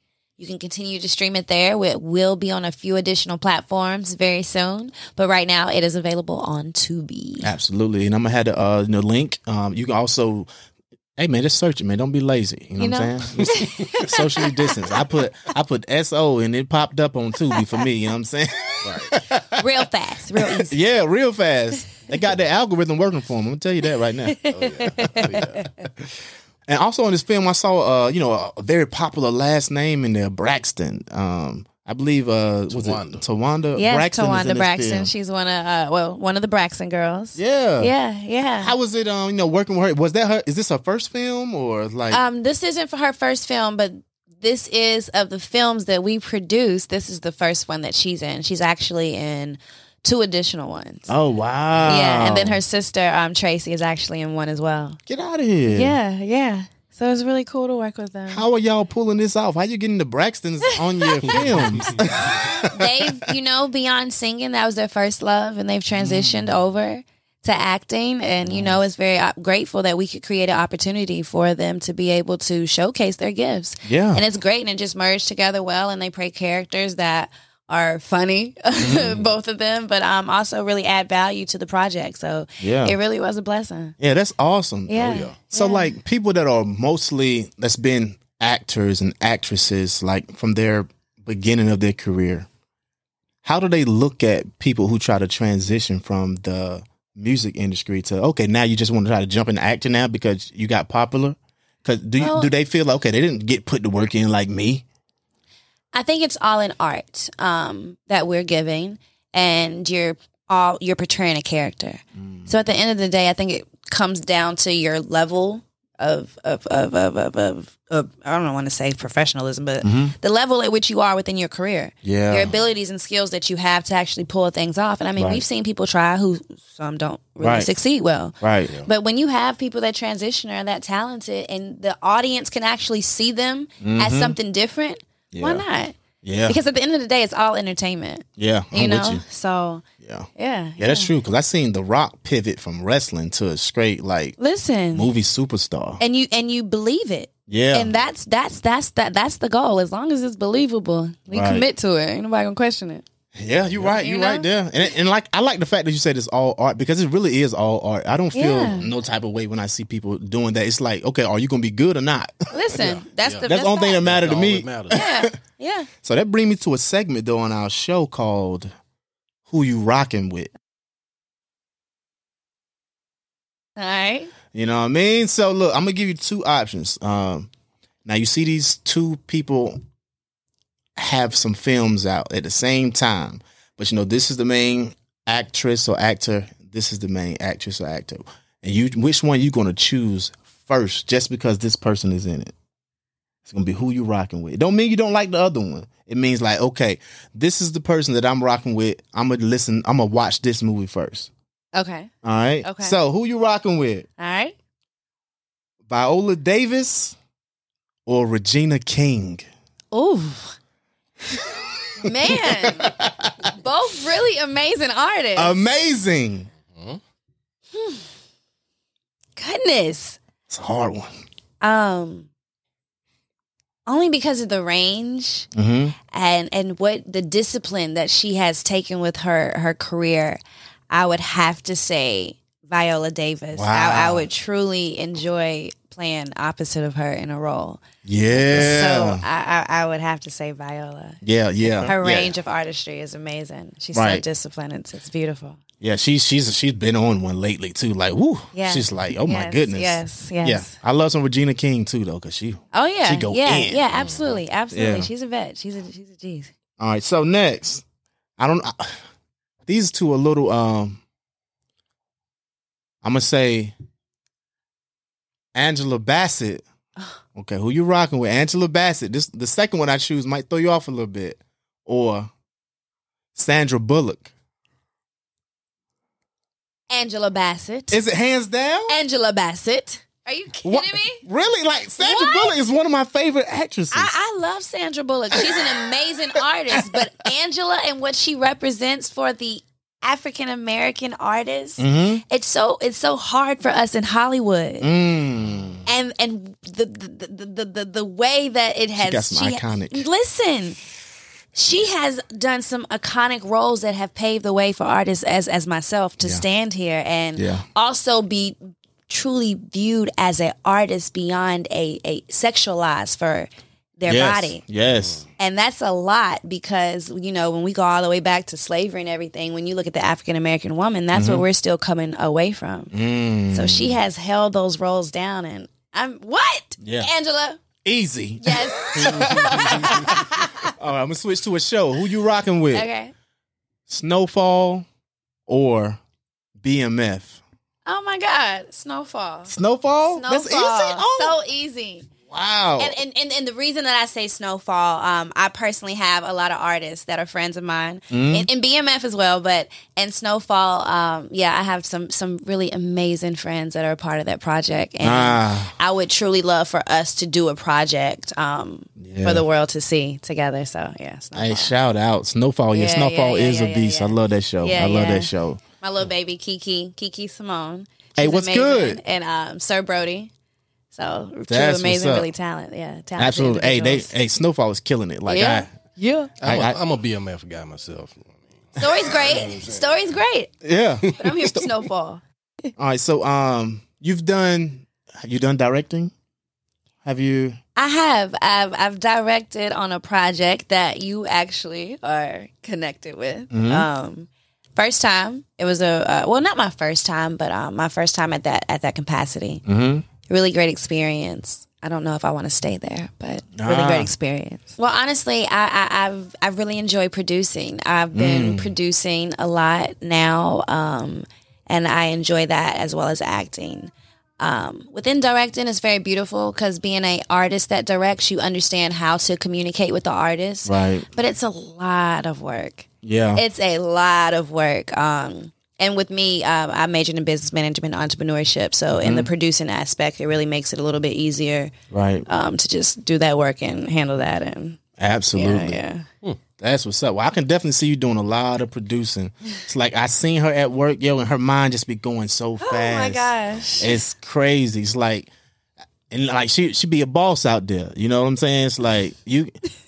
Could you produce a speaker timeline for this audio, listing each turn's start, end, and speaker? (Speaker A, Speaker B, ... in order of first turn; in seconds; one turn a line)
Speaker A: 0.4-7.5
Speaker B: 7.4-10.5
Speaker B: 11.2-19.4
Speaker A: 12.8-14.8
Speaker C: 18.8-19.1
Speaker A: 19.5-20.8
Speaker B: 20.6-24.4
Speaker A: 24.3-25.7
Speaker C: 24.5-25.7
Speaker B: 26.7-35.1
Speaker C: 32.7-33.2
Speaker A: 33.8-38.8
Speaker B: 37.4-37.9
Speaker B: 38.6-42.2
Speaker A: 42.1-51.1
Speaker B: 51.1-52.6
Speaker A: 51.9-55.0
Speaker B: 55.1-56.0
Speaker A: 55.7-58.5
Speaker B: 58.3-63.0
Speaker A: 61.0-84.0
Speaker C: 61.3-61.8
Speaker B: 66.0-66.5
Speaker B: 68.5-68.8
Speaker B: 73.9-74.2
Speaker B: 78.8-79.2
Speaker B: 82.6-83.0
Speaker B: 84.0-92.5
Speaker A: 84.9-86.0
Speaker C: 84.9-85.3
Speaker B: 93.4-104.8
Speaker A: 102.2-102.5
Speaker A: 105.9-135.9
Speaker B: 112.2-112.5
Speaker B: 119.8-120.1
Speaker B: 122.0-122.5
Speaker B: 125.2-125.4
Speaker B: 127.4-127.7
Speaker B: 128.4-128.7
Speaker B: 133.8-134.4
Speaker B: 135.3-135.6
Speaker B: 136.2-136.6
Speaker A: 136.5-139.8
Speaker B: 138.4-139.2
Speaker B: 140.0-144.4
Speaker A: 140.4-141.1
Speaker A: 144.4-145.1
Speaker B: 144.9-146.0
Speaker A: 146.0-153.0
Speaker B: 147.5-147.9
Speaker B: 151.3-151.7
Speaker B: 153.3-162.4
Speaker A: 153.9-154.9
Speaker A: 158.3-158.9
Speaker A: 162.5-164.0
Speaker C: 162.8-165.0
Speaker B: 163.5-165.3
Speaker A: 164.9-165.9
Speaker B: 166.0-168.7
Speaker B: 169.5-170.5
Speaker A: 173.8-174.3
Speaker B: 174.5-177.5
Speaker B: 178.1-179.8
Speaker B: 181.0-192.5
Speaker B: 193.5-201.3
Speaker A: 201.7-202.1
Speaker B: 202.2-204.1
Speaker A: 202.6-203.0
Speaker A: 204.2-204.6
Speaker B: 205.9-207.2
Speaker B: 208.1-209.5
Speaker A: 209.9-210.6
Speaker B: 211.3-213.3
Speaker A: 212.0-212.9
Speaker A: 213.4-215.7
Speaker B: 215.3-216.5
Speaker C: 216.7-217.0
Speaker A: 217.8-218.1
Speaker A: 219.4-220.2
Speaker B: 220.5-221.1
Speaker A: 221.6-222.3
Speaker A: 223.9-225.5
Speaker B: 225.6-225.9
Speaker A: 226.1-230.4
Speaker A: 230.9-237.8
Speaker B: 233.5-234.3
Speaker B: 238.0-239.2
Speaker A: 238.4-241.2
Speaker B: 241.2-242.3
Speaker C: 241.7-241.9
Speaker A: 241.9-245.6
Speaker B: 243.9-244.2
Speaker B: 245.8-253.8
Speaker A: 248.5-250.8
Speaker A: 252.7-256.5
Speaker C: 253.9-254.4
Speaker B: 254.7-255.1
Speaker B: 256.8-257.8
Speaker B: 258.4-259.0
Speaker B: 259.7-261.0
Speaker B: 263.0-263.8
Speaker B: 265.6-266.6
Speaker B: 267.4-272.3
Speaker B: 273.4-274.3
Speaker A: 276.9-278.1
Speaker B: 277.9-279.0
Speaker A: 278.9-281.2
Speaker B: 280.6-284.1
Speaker A: 282.0-282.6
Speaker A: 283.9-294.9
Speaker B: 291.8-292.2
Speaker B: 294.8-295.8
Speaker A: 295.9-300.8
Speaker B: 299.0-300.1
Speaker A: 301.5-308.6
Speaker B: 307.4-307.6
Speaker A: 309.1-314.6
Speaker B: 314.1-315.2
Speaker C: 315.0-315.2
Speaker A: 315.4-322.9
Speaker B: 321.1-321.5
Speaker B: 322.9-324.0
Speaker A: 323.5-327.6
Speaker B: 326.8-327.1
Speaker B: 327.8-330.2
Speaker A: 328.4-330.7
Speaker C: 329.0-330.1
Speaker B: 330.8-332.9
Speaker A: 332.7-333.1
Speaker B: 333.9-334.9
Speaker B: 335.5-336.0
Speaker B: 336.6-337.4
Speaker A: 337.9-342.1
Speaker B: 339.5-341.4
Speaker B: 342.3-343.0
Speaker A: 342.8-361.8
Speaker B: 348.1-348.5
Speaker B: 355.0-355.7
Speaker B: 359.0-359.4
Speaker B: 361.4-365.6
Speaker A: 362.7-370.3
Speaker B: 368.2-369.0
Speaker A: 370.9-374.1
Speaker B: 371.5-372.3
Speaker B: 373.2-375.7
Speaker A: 375.3-376.3
Speaker C: 376.4-380.1
Speaker B: 376.4-376.8
Speaker A: 378.8-380.5
Speaker B: 380.6-381.6
Speaker C: 381.0-381.3
Speaker A: 381.2-382.2
Speaker B: 382.8-386.1
Speaker B: 387.0-387.6
Speaker A: 387.8-399.6
Speaker B: 393.5-393.9
Speaker B: 399.7-400.1
Speaker A: 400.3-431.7
Speaker B: 403.6-404.1
Speaker B: 408.1-408.8
Speaker B: 420.7-421.1
Speaker B: 423.0-423.4
Speaker B: 428.9-429.3
Speaker B: 431.9-432.2
Speaker A: 432.3-434.8
Speaker B: 435.0-435.8
Speaker A: 435.4-436.1
Speaker B: 436.6-445.3
Speaker A: 442.6-444.0
Speaker B: 446.1-449.5